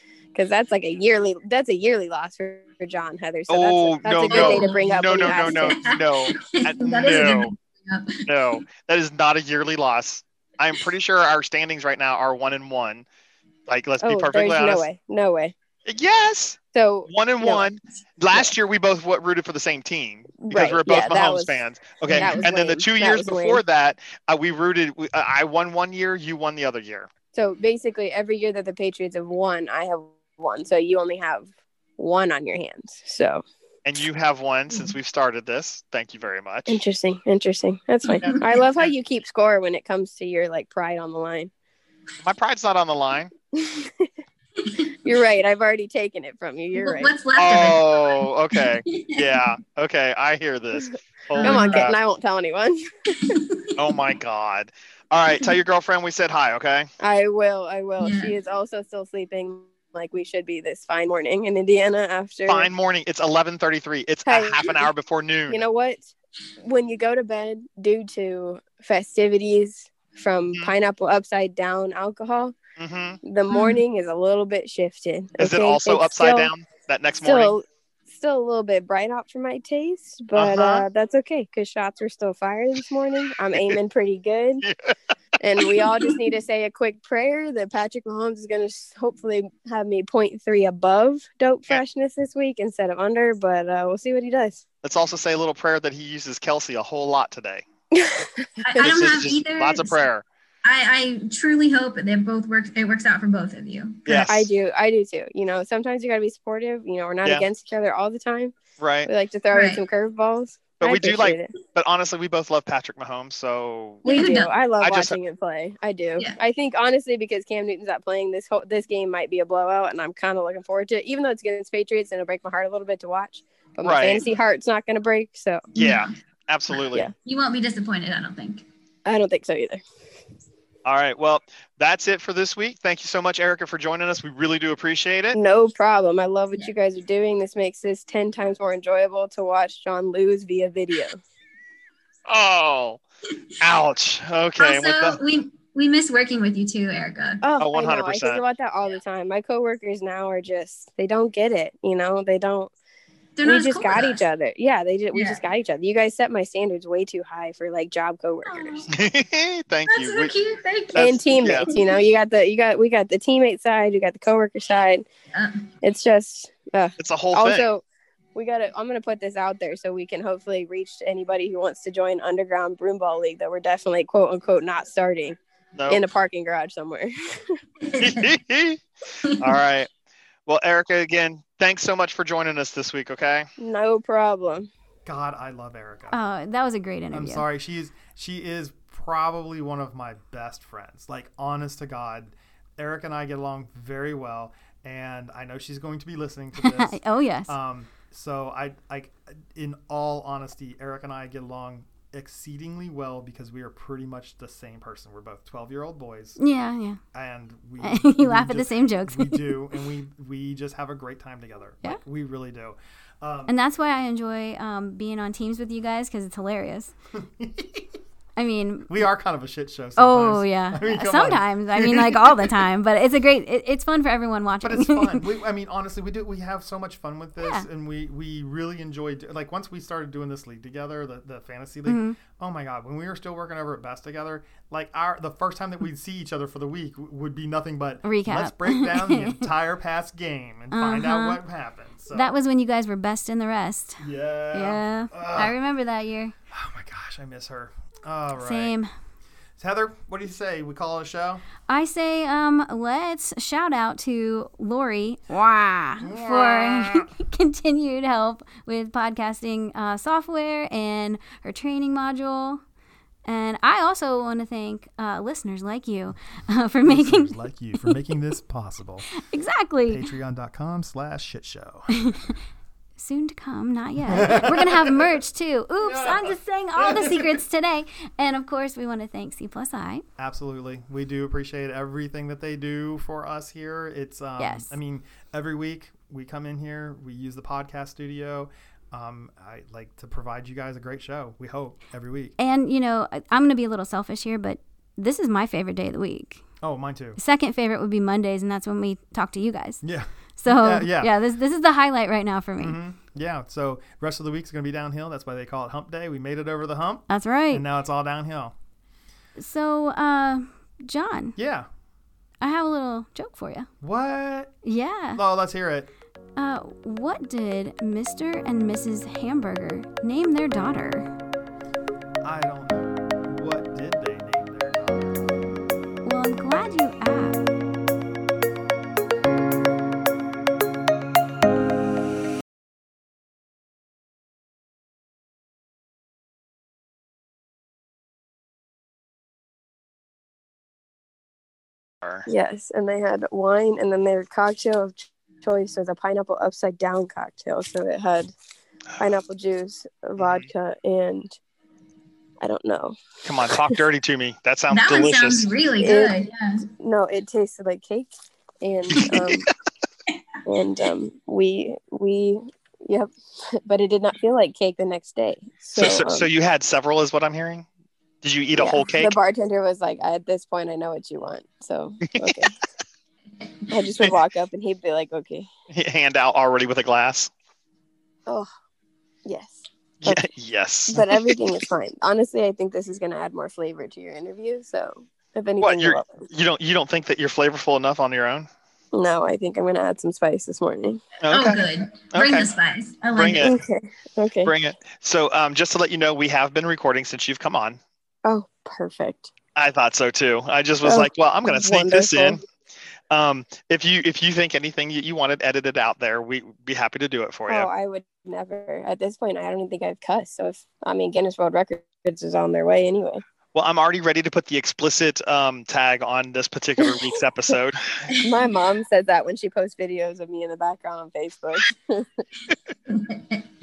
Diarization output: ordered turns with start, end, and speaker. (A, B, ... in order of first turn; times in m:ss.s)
0:00.4-0:05.8 A
0:03.5-0:05.8 B
0:04.3-0:08.6 C
0:05.9-0:06.3 D
0:06.8-0:07.4 B
0:06.9-0:07.4 D
0:08.3-0:13.0 B
0:09.6-0:10.0 D
0:13.7-0:14.8 B
0:14.0-0:15.5 A
0:15.9-0:16.6 B
0:16.7-0:17.7 A
0:17.1-0:27.0 B
0:20.4-0:23.6 A
0:22.1-0:22.5 C
0:27.3-0:33.4 A
0:33.9-0:36.8 B
0:36.7-0:41.5 A
0:38.1-0:38.4 C
0:42.2-0:43.3 B
0:42.8-0:43.2 D
0:43.5-0:44.1 A
0:44.6-0:44.9 C
0:45.0-0:47.1 A
0:46.8-0:48.1 C
0:47.4-0:51.9 B
0:48.8-0:49.4 C
0:51.4-0:51.9 C
0:51.4-0:53.2 A
0:53.2-0:53.8 C
0:53.8-0:56.8 B
0:53.9-0:54.7 D
0:57.0-1:02.7 A
0:58.0-0:58.4 C
1:02.5-1:05.6 B
1:04.3-1:04.9 A
1:05.5-1:12.6 A
1:12.8-1:13.2 B
1:13.2-1:16.5 A
1:13.5-1:13.8 C
1:15.4-1:17.5 B
1:17.2-1:24.6 A
1:20.4-1:20.8 B
1:25.4-1:34.6 A
1:34.8-1:37.6 B
1:35.7-1:37.3 D
1:37.9-1:38.5 A
1:38.6-1:40.1 C
1:38.8-1:40.2 B
1:39.0-1:40.1 D
1:40.6-1:44.1 C
1:44.1-1:44.5 B
1:44.3-1:51.5 A
1:48.8-1:49.1 B
1:49.5-1:49.8 C
1:50.8-1:54.0 B
1:54.0-2:05.7 A
1:54.1-1:54.5 C
1:54.7-1:55.2 B
2:03.8-2:04.2 B
2:05.7-2:06.1 C
2:05.8-2:07.1 B
2:07.2-2:08.6 C
2:09.1-2:09.8 A
2:10.9-2:15.4 B
2:15.4-2:21.2 A
2:22.3-2:23.0 B
2:23.6-2:25.1 B
2:24.6-2:27.4 C
2:27.4-2:32.7 A
2:27.6-2:28.4 B
2:33.4-2:34.2 C
2:33.4-2:38.8 A
2:35.1-2:35.4 C
2:38.5-2:38.9 C
2:38.9-2:40.3 B
2:39.9-2:41.9 C
2:41.0-2:45.1 A
2:41.0-2:41.6 B
2:45.3-2:45.6 C
2:45.8-2:47.8 A
2:47.0-2:47.7 B
2:48.4-2:55.4 A
2:55.9-2:57.6 A
2:57.8-2:58.2 C
2:58.0-2:58.7 B
2:59.4-2:59.9 B
3:00.5-3:03.4 B
3:03.6-3:04.7 A
3:05.1-3:06.2 D
3:06.1-3:07.5 E
3:07.1-3:26.4 D
3:16.6-3:17.5 E
3:26.4-3:27.0 E
3:27.1-3:33.6 D
3:27.8-3:29.6 E
3:33.5-3:36.9 E
3:37.2-3:37.8 D
3:38.4-3:39.0 E
3:38.9-3:42.6 D
3:40.0-3:45.3 E
3:44.6-4:02.4 D
3:47.4-3:47.7 E
3:51.8-3:52.2 E
3:58.0-3:59.4 E
4:00.7-4:01.4 E
4:02.1-4:06.3 E
4:04.0-4:05.6 D
4:06.5-4:08.7 D
4:08.4-4:08.9 E
4:09.6-4:11.4 D
4:11.7-4:22.6 E
4:16.0-4:17.1 D
4:23.3-4:28.0 E
4:26.8-4:29.1 D
4:29.2-4:30.1 E
4:29.9-4:31.9 D
4:31.9-4:32.3 E
4:33.0-4:40.0 E
4:34.1-4:35.0 D
4:35.8-4:37.3 D
4:40.2-4:52.4 D
4:44.4-4:44.8 E
4:52.4-4:56.4 E
4:56.6-4:57.2 D
4:57.2-4:59.8 E
4:59.8-5:01.1 D
5:00.4-5:02.8 E
5:02.6-5:08.5 D
5:07.1-5:07.6 E
5:09.4-5:11.4 E
5:11.4-5:11.7 D
5:12.4-5:13.7 E
5:13.8-5:14.6 D
5:14.6-5:15.2 E
5:15.2-5:15.9 D
5:16.4-5:21.1 E
5:22.2-5:25.5 D
5:26.0-5:27.4 E
5:42.3-5:48.3 A
5:49.0-5:51.4 A
5:50.2-5:50.5 B
5:52.4-5:53.0 A
5:53.3-5:55.4 B
5:54.7-5:56.7 C
5:55.8-5:56.2 A
5:56.7-5:58.1 A
5:58.6-5:59.5 A
6:00.5-6:03.1 A
6:03.6-6:06.3 A
6:05.8-6:07.7 B
6:08.2-6:09.2 B
6:08.6-6:12.6 A
6:13.4-6:13.9 C
6:13.7-6:15.5 A
6:15.7-6:17.3 B
6:19.2-6:20.2 A
6:20.0-6:21.3 B
6:20.9-6:26.3 A
6:25.6-6:28.4 B
6:28.9-6:31.0 A
6:31.2-6:31.6 B
6:31.3-6:33.5 C
6:32.1-6:32.4 B
6:33.2-6:33.4 B
6:33.4-6:34.5 A
6:34.4-6:37.8 B
6:38.2-6:39.3 A
6:39.6-6:42.4 B
6:40.8-6:42.4 A
6:43.1-6:47.7 B
6:47.5-6:53.2 A
6:53.5-6:57.7 B
6:54.1-6:54.8 D
6:58.1-6:58.4 C
6:58.2-7:02.2 A
7:02.9-7:03.5 C